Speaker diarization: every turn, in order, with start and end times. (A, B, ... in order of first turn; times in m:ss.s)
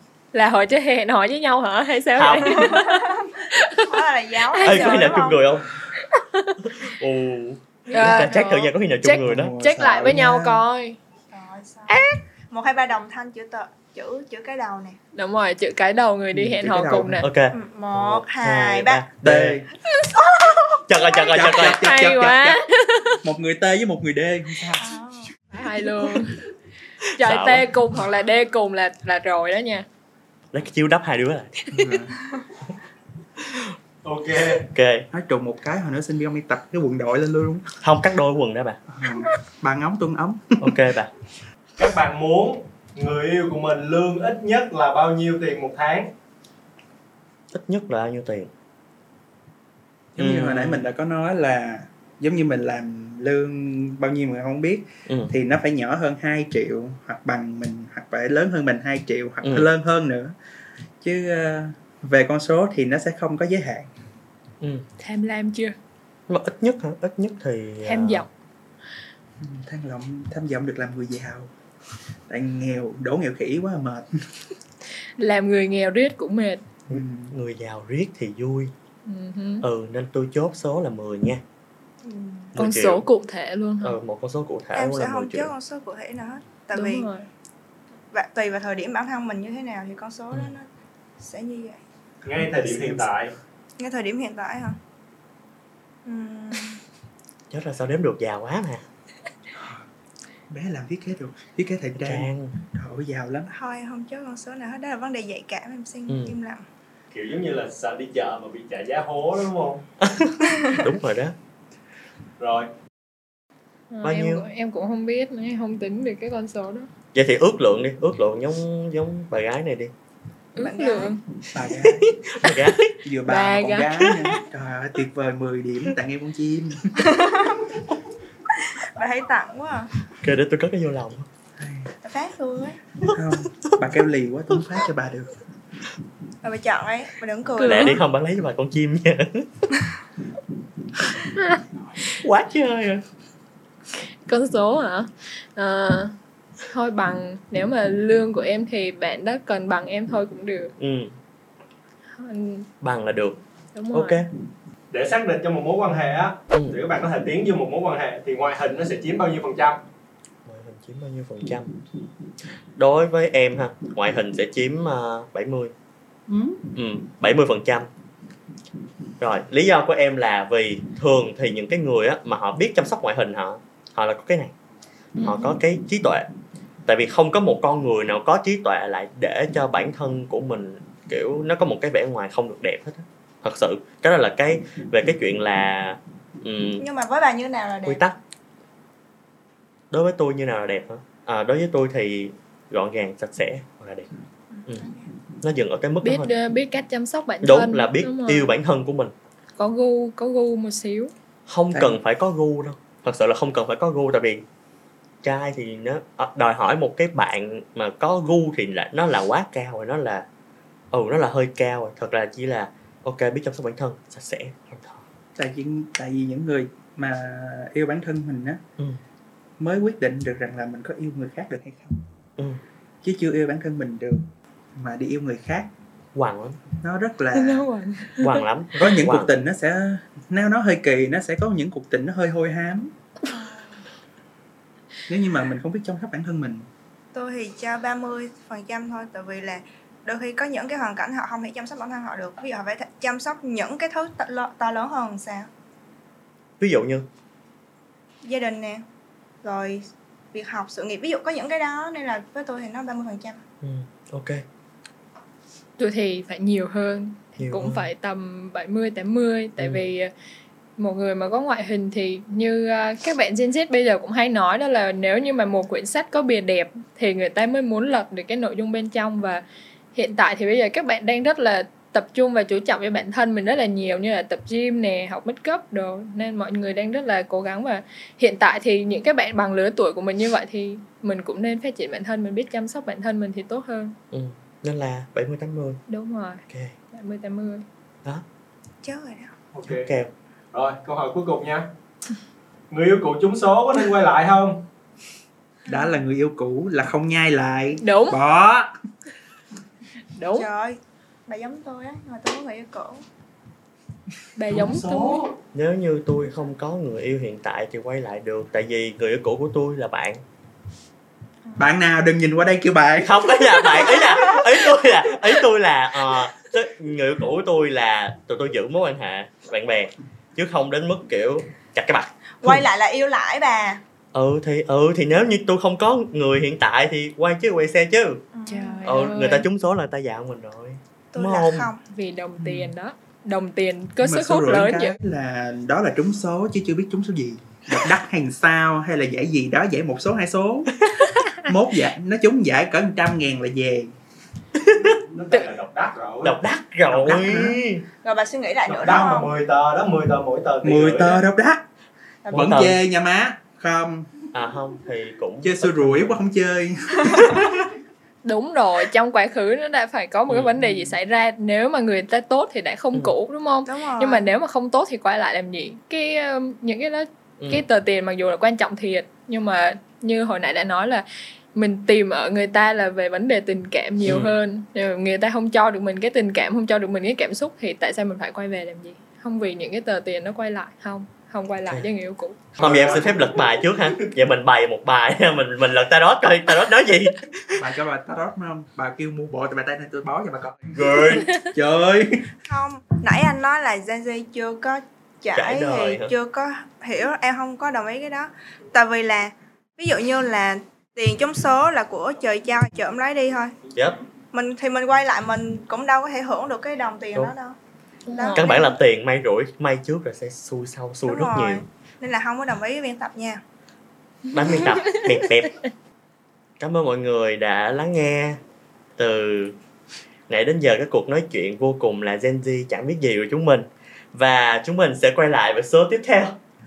0:00.3-0:04.0 A
0:02.2-0:02.8 B
0:02.4-0:05.4 C
0:04.5-0:05.4 A
0:04.6-0:05.7 B
0:06.0-0:06.7 A
0:06.6-0:09.5 B
0:07.9-0:11.0 A
0:07.9-0:08.2 C
0:09.1-0:10.6 D
0:11.3-0:12.0 C
0:11.9-0:12.1 A
0:12.5-0:15.0 C
0:15.1-0:17.3 A
0:16.3-0:17.2 D
0:17.2-0:19.6 B
0:17.5-0:19.0 C
0:19.2-0:19.7 D
0:20.2-0:20.8 C
0:20.9-0:21.8 B
0:21.1-0:23.2 A
0:21.3-0:22.6 D
0:23.2-0:25.0 D
0:24.8-0:25.3 C
0:25.5-0:26.4 A
0:25.6-0:26.2 D
0:27.2-0:29.8 A
0:27.2-0:27.7 B
0:30.5-0:31.6 B
0:31.7-0:32.2 D
0:33.4-0:33.7 B
0:34.0-0:34.6 E
0:34.5-0:35.1 B
0:35.1-0:37.7 D
0:37.8-0:38.8 B
0:38.9-0:40.8 D
0:40.6-0:41.1 B
0:41.8-0:46.1 E
0:47.5-0:48.5 B
0:50.2-1:00.3 D
0:50.2-0:50.9 B
0:55.1-0:55.3 B
0:59.4-0:59.7 B
1:01.0-1:03.9 D
1:04.6-1:04.8 B
1:05.0-1:05.8 A
1:06.3-1:08.2 B
1:07.8-1:08.3 A
1:09.4-1:11.5 D
1:12.3-1:14.2 D
1:15.2-1:16.6 A
1:16.9-1:17.3 D
1:16.9-1:18.7 B
1:19.0-1:19.6 A
1:19.6-1:21.4 B
1:22.0-1:22.5 C
1:22.5-1:23.0 B
1:22.6-1:24.0 A
1:23.8-1:25.5 B
1:24.7-1:27.1 C
1:26.7-1:27.3 A
1:28.1-1:30.7 C
1:31.2-1:31.8 C
1:32.2-1:33.3 E
1:32.4-1:33.1 D
1:33.8-1:34.8 C
1:36.0-1:36.8 C
1:37.5-1:38.8 B
1:39.6-1:39.8 D
1:40.5-1:43.5 D
1:42.0-1:42.5 B
1:43.5-1:46.6 C
1:46.1-1:46.4 B
1:47.1-1:49.8 E
1:50.0-1:51.3 B
1:52.4-1:52.7 E
1:53.9-1:56.9 A
1:54.0-1:54.4 B
1:57.1-1:59.9 B
2:00.6-2:01.2 A
2:00.6-2:01.1 C
2:01.5-2:02.1 D
2:01.8-2:02.9 B
2:03.0-2:07.1 D
2:03.2-2:04.1 A
2:07.0-2:07.7 C
2:08.5-2:09.9 C
2:10.2-2:11.3 B
2:11.6-2:11.9 D
2:12.0-2:12.8 C
2:13.1-2:15.4 D
2:13.1-2:13.7 B
2:16.4-2:18.0 C
2:17.6-2:19.7 B
2:17.6-2:18.0 A
2:21.2-2:21.6 A
2:22.1-2:23.0 B
2:24.2-2:26.2 A
2:26.7-2:30.7 A
2:30.8-2:31.1 B
2:32.1-2:32.7 A
2:32.8-2:33.4 B
2:33.7-2:34.2 A
2:33.9-2:34.3 B
2:34.9-2:39.8 E
2:36.5-2:36.8 B
2:40.4-2:41.7 B
2:42.8-2:45.7 B
2:46.3-2:46.6 D
2:46.7-2:47.9 B
2:49.2-2:54.5 B
2:55.2-2:55.5 A
2:55.2-2:56.3 B
2:56.8-3:06.8 B
3:06.8-3:08.0 C
3:07.8-3:08.2 B
3:09.9-3:14.1 B
3:14.5-3:15.1 C
3:15.4-3:16.3 B
3:16.0-3:18.5 A
3:17.4-3:19.1 B
3:19.6-3:21.1 A
3:21.5-3:24.4 B
3:21.7-3:22.0 D
3:25.2-3:30.2 B
3:30.9-3:35.0 B
3:35.4-3:38.6 D
3:39.6-3:42.0 D
3:43.0-3:45.7 D
3:46.1-3:46.6 B
3:46.8-3:47.7 D
3:47.3-3:48.4 A
3:48.2-3:49.3 B
3:48.8-3:52.9 D
3:53.2-3:53.8 C
3:55.1-3:56.7 D
3:57.1-4:05.5 C
4:06.6-4:07.1 B
4:08.2-4:08.8 C
4:09.4-4:13.4 C
4:13.6-4:14.4 B
4:15.8-4:20.1 A
4:17.4-4:17.9 B
4:19.6-4:19.8 B
4:20.8-4:29.4 A
4:29.9-4:44.0 A
4:44.1-4:45.8 B
4:45.9-4:47.6 A
4:46.5-4:46.7 B
4:48.8-4:49.3 C
4:49.5-4:49.9 E
4:49.6-4:50.1 B
4:50.5-4:51.7 E
4:52.7-4:54.6 E
4:55.7-4:58.7 D
4:57.8-4:58.2 A
5:00.1-5:00.5 A
5:00.3-5:03.0 C
5:04.4-5:05.2 A
5:04.5-5:05.3 D
5:05.4-5:10.2 B
5:11.6-5:13.8 D
5:13.0-5:22.6 B
5:22.4-5:23.8 C
5:24.1-5:28.2 B
5:28.3-5:29.1 C
5:28.4-5:29.5 A
5:28.8-5:31.7 B
5:31.1-5:31.8 C
5:31.9-5:34.9 A
5:32.4-5:32.7 D
5:34.0-5:40.7 D
5:41.4-5:43.9 D
5:44.6-5:44.9 B
5:44.8-5:46.4 E
5:46.2-5:47.8 B
5:46.9-5:47.2 E
5:47.0-5:47.6 D
5:48.0-5:49.3 C
5:48.6-5:51.2 E
5:48.8-5:49.2 D
5:50.6-5:51.6 D
5:52.2-5:52.7 C
5:52.3-5:54.2 D
5:52.3-5:52.8 B
5:54.3-5:56.2 B
5:55.4-5:57.7 D
5:58.2-6:22.6 A
6:00.3-6:00.8 B
6:03.6-6:04.2 C
6:14.0-6:14.3 B
6:22.6-6:27.6 B
6:22.6-6:23.3 E
6:27.6-6:32.3 D
6:30.7-6:31.3 B
6:32.5-6:43.6 C
6:35.3-6:36.1 B
6:44.3-6:47.6 C
6:48.1-6:48.7 A
6:48.1-6:48.7 C
6:48.3-6:51.6 B
6:51.1-6:53.4 C
6:54.3-6:55.6 B
6:56.6-6:58.4 B
6:59.0-6:59.6 B
7:00.3-7:06.4 B